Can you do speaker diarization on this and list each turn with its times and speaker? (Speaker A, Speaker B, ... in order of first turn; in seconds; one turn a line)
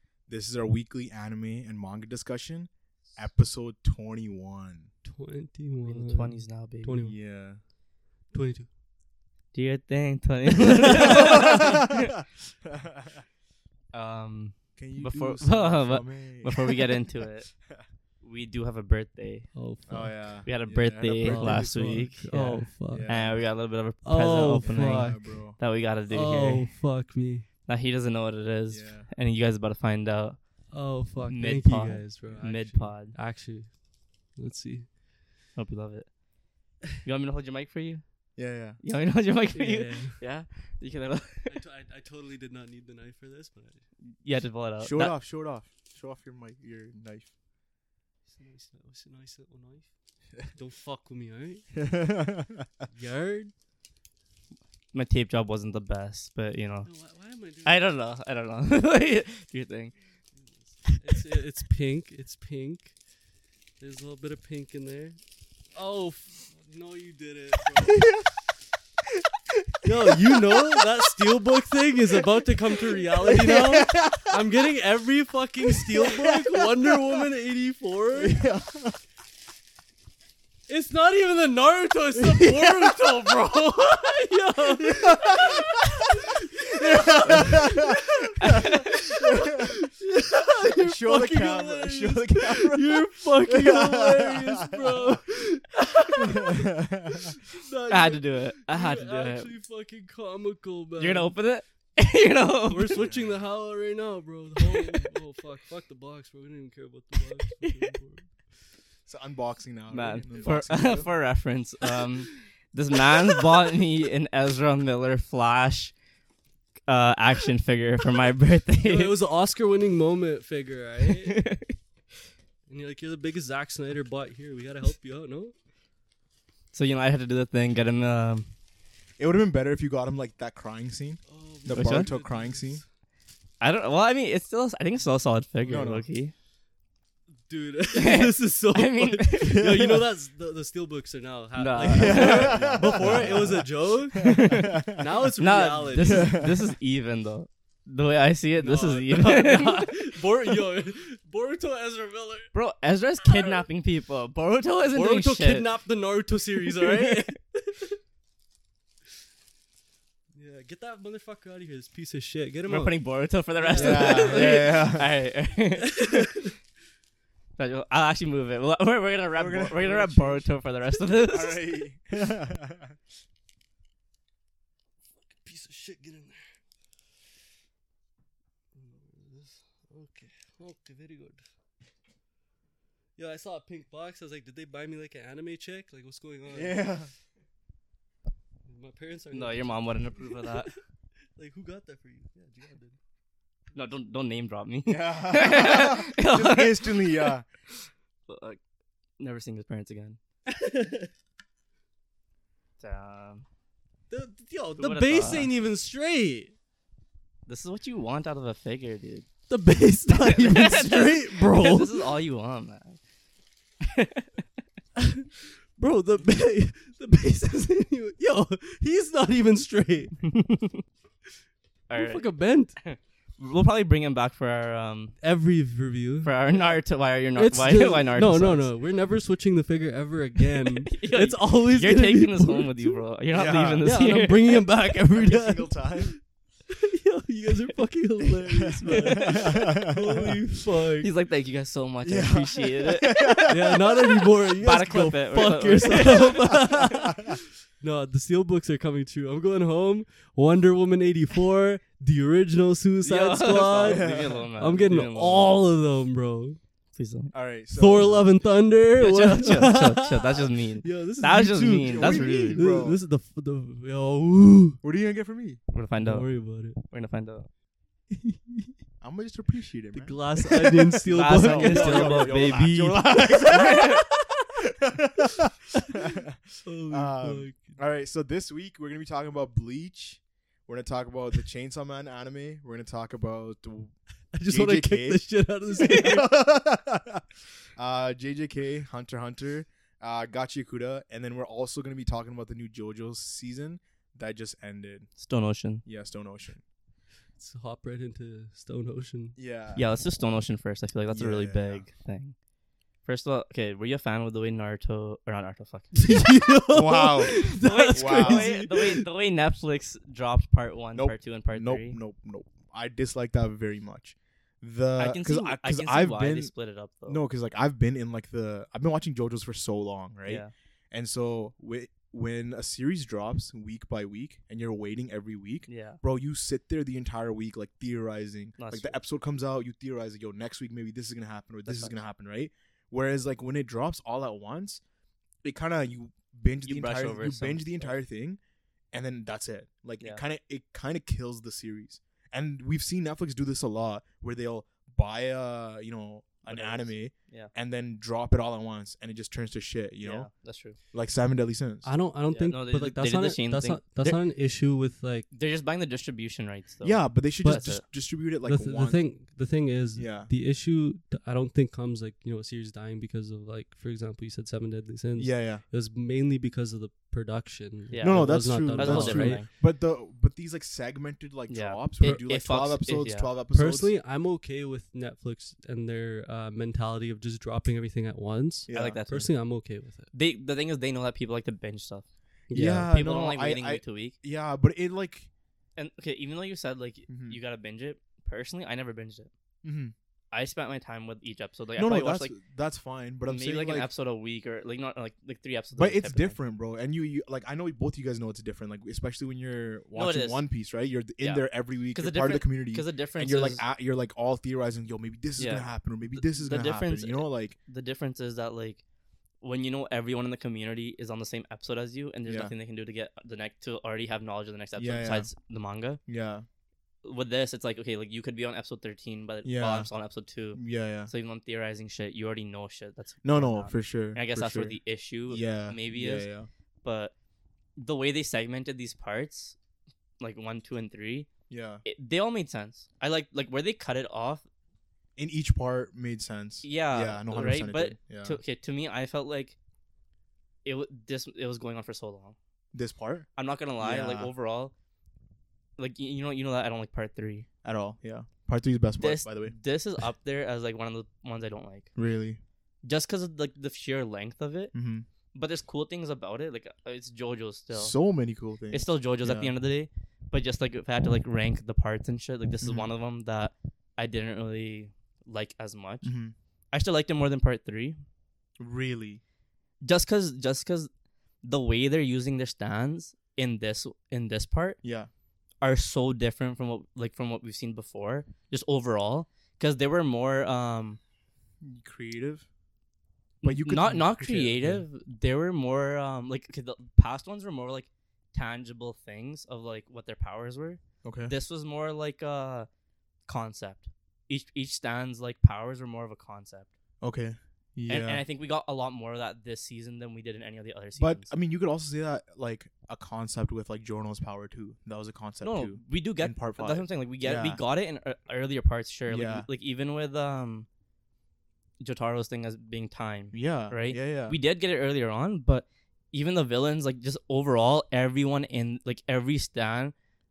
Speaker A: 0.3-4.9
Speaker B: 5.0-7.2
Speaker C: 5.8-7.0
Speaker A: 7.0-7.6
Speaker B: 8.3-8.7
Speaker C: 9.5-12.1
Speaker B: 10.6-11.4
Speaker A: 11.2-13.2
Speaker C: 13.9-17.6
Speaker A: 14.8-17.1
Speaker C: 18.2-19.5
Speaker B: 19.5-20.2
Speaker A: 19.9-22.1
Speaker C: 20.4-26.8
Speaker B: 21.2-23.1
Speaker A: 22.9-23.4
Speaker B: 24.0-25.2
Speaker A: 24.6-25.6
Speaker B: 26.1-27.4
Speaker C: 27.7-30.4
Speaker A: 28.7-29.1
Speaker B: 30.7-34.9
Speaker C: 31.2-33.1
Speaker C: 35.5-36.1
Speaker C: 37.0-41.6
Speaker A: 38.4-38.8
Speaker B: 39.5-40.2
Speaker B: 41.5-43.8
Speaker C: 44.1-45.1
Speaker A: 44.8-47.3
Speaker B: 48.3-51.8
Speaker A: 51.8-52.7
Speaker B: 52.9-53.5
Speaker C: 54.9-56.9
Speaker B: 56.9-57.9
Speaker C: 57.6-59.9
Speaker B: 60.4-63.0
Speaker B: 63.8-65.2
Speaker B: 65.7-68.3
Speaker B: 69.8-78.5
Speaker A: 73.2-74.4
Speaker A: 75.9-77.0
Speaker A: 78.2-79.0
Speaker B: 80.7-96.8
Speaker A: 84.8-89.7
Speaker C: 88.4-89.0
Speaker A: 90.8-94.8
Speaker C: 95.8-96.2
Speaker A: 96.2-97.3
Speaker B: 97.3-101.3
Speaker C: 97.9-99.5
Speaker C: 101.0-103.0
Speaker B: 102.6-108.4
Speaker A: 102.9-103.4
Speaker C: 104.6-105.0
Speaker C: 107.6-107.9
Speaker A: 109.1-111.1
Speaker C: 109.9-115.9
Speaker C: 116.9-119.2
Speaker B: 118.8-121.4
Speaker C: 121.2-121.8
Speaker B: 122.7-125.5
Speaker C: 126.7-128.5
Speaker A: 129.2-132.8
Speaker B: 131.3-132.8
Speaker C: 131.7-132.1
Speaker C: 133.6-136.3
Speaker A: 135.6-136.1
Speaker B: 137.4-146.7
Speaker C: 137.9-139.7
Speaker A: 139.5-140.0
Speaker C: 141.6-143.3
Speaker A: 141.9-143.7
Speaker A: 144.2-145.0
Speaker C: 144.2-144.7
Speaker C: 145.4-150.1
Speaker A: 146.1-146.4
Speaker B: 148.6-152.5
Speaker C: 152.5-155.7
Speaker B: 153.2-153.6
Speaker B: 154.9-158.0
Speaker C: 156.8-157.3
Speaker B: 160.3-163.0
Speaker C: 162.7-166.3
Speaker B: 163.6-164.7
Speaker A: 163.7-165.1
Speaker B: 165.8-166.6
Speaker C: 167.6-171.6
Speaker A: 169.3-170.4
Speaker A: 171.1-172.9
Speaker B: 175.2-176.5
Speaker B: 178.7-181.4
Speaker B: 183.2-186.8
Speaker A: 186.5-187.1
Speaker B: 188.7-190.8
Speaker C: 189.3-190.7
Speaker B: 191.3-193.0
Speaker C: 193.7-198.6
Speaker A: 194.8-197.4
Speaker C: 199.2-200.2
Speaker B: 200.5-201.1
Speaker C: 202.8-203.4
Speaker B: 204.1-206.5
Speaker C: 204.8-205.5
Speaker C: 207.5-209.3
Speaker B: 209.5-212.1
Speaker C: 210.1-213.0
Speaker C: 213.8-214.4
Speaker B: 214.9-220.2
Speaker C: 220.3-220.8
Speaker C: 221.9-222.2
Speaker B: 221.9-222.8
Speaker C: 222.8-225.2
Speaker B: 225.2-226.3
Speaker C: 226.2-228.7
Speaker B: 227.3-233.0
Speaker C: 230.9-234.7
Speaker A: 233.3-233.9
Speaker B: 233.8-236.2
Speaker A: 235.1-236.2
Speaker B: 236.7-241.1
Speaker A: 238.5-240.3
Speaker C: 238.7-239.4
Speaker C: 241.0-243.8
Speaker A: 242.0-243.8
Speaker B: 243.5-256.6
Speaker C: 244.6-246.8
Speaker C: 253.0-255.5
Speaker A: 253.8-254.4
Speaker C: 256.9-257.3
Speaker A: 257.3-258.3
Speaker B: 257.7-264.8
Speaker C: 259.0-262.6
Speaker A: 261.8-263.0
Speaker A: 264.8-265.6
Speaker C: 265.7-267.5
Speaker B: 266.0-266.8
Speaker B: 268.1-268.7
Speaker A: 269.0-270.5
Speaker B: 269.9-273.9
Speaker C: 271.1-272.8
Speaker A: 271.1-274.0
Speaker C: 273.3-274.0
Speaker A: 274.7-283.9
Speaker B: 276.6-277.8
Speaker B: 284.3-286.3
Speaker A: 284.5-285.2
Speaker A: 285.8-287.2
Speaker A: 287.8-295.1
Speaker C: 295.2-295.8
Speaker A: 295.8-296.6
Speaker B: 297.4-299.4
Speaker A: 299.4-299.8
Speaker C: 299.8-302.3
Speaker A: 301.1-301.8
Speaker C: 303.0-306.1
Speaker B: 305.9-309.1
Speaker A: 306.7-308.6
Speaker C: 307.3-312.0
Speaker A: 310.9-316.5
Speaker C: 315.0-317.2
Speaker A: 317.1-334.8
Speaker C: 320.2-320.5
Speaker C: 325.7-326.0
Speaker C: 328.6-329.0
Speaker C: 331.7-331.9
Speaker A: 335.4-338.4
Speaker C: 336.7-338.0
Speaker A: 338.9-350.3
Speaker C: 346.4-347.5
Speaker C: 350.0-350.8
Speaker A: 350.9-351.9
Speaker B: 351.8-355.2
Speaker C: 352.3-354.2
Speaker C: 355.3-357.8
Speaker A: 356.8-359.0
Speaker B: 358.4-369.4
Speaker A: 359.9-360.3
Speaker A: 365.2-365.6
Speaker C: 367.9-369.5
Speaker A: 368.0-373.9
Speaker C: 371.5-373.3
Speaker B: 373.5-380.1
Speaker A: 378.7-379.0
Speaker C: 378.7-379.3
Speaker C: 380.1-382.1
Speaker B: 382.5-382.9
Speaker A: 382.5-385.3
Speaker C: 382.8-384.1
Speaker C: 385.8-389.3
Speaker A: 387.1-387.4
Speaker A: 389.6-389.9
Speaker C: 390.3-392.3
Speaker A: 391.8-393.9
Speaker C: 393.3-396.4
Speaker A: 395.7-407.6
Speaker C: 399.9-400.4
Speaker C: 401.2-403.6
Speaker C: 405.4-408.8
Speaker C: 409.4-416.0
Speaker A: 412.3-412.5
Speaker A: 414.8-415.3
Speaker A: 416.1-416.4
Speaker C: 417.0-426.3
Speaker A: 419.4-419.9
Speaker A: 420.5-421.1
Speaker A: 423.2-424.8
Speaker A: 425.3-426.5
Speaker C: 426.8-427.1
Speaker C: 427.8-429.6
Speaker C: 430.2-431.3
Speaker A: 431.5-431.8
Speaker C: 431.8-434.4
Speaker A: 435.1-438.4
Speaker C: 436.6-439.6
Speaker C: 440.6-442.4
Speaker A: 442.7-443.3
Speaker C: 443.4-444.7
Speaker A: 443.8-444.3
Speaker C: 445.8-447.5
Speaker A: 447.6-449.5
Speaker C: 449.0-451.9
Speaker A: 451.9-452.4
Speaker C: 452.8-454.7
Speaker A: 454.7-455.1
Speaker C: 455.3-457.9
Speaker A: 457.7-459.5
Speaker C: 458.7-466.1
Speaker A: 462.6-462.9
Speaker A: 466.0-466.3
Speaker C: 466.7-468.0
Speaker A: 468.6-469.2
Speaker C: 469.8-470.9
Speaker C: 471.4-474.8
Speaker A: 474.8-475.1
Speaker C: 475.6-481.0
Speaker A: 481.6-482.5
Speaker C: 483.4-492.7
Speaker A: 483.4-484.8
Speaker A: 491.0-491.3
Speaker C: 493.3-496.7
Speaker A: 497.0-498.2
Speaker C: 497.9-501.3
Speaker A: 501.0-507.6
Speaker C: 505.4-510.7
Speaker A: 509.1-509.5
Speaker C: 511.8-519.9
Speaker A: 513.3-514.4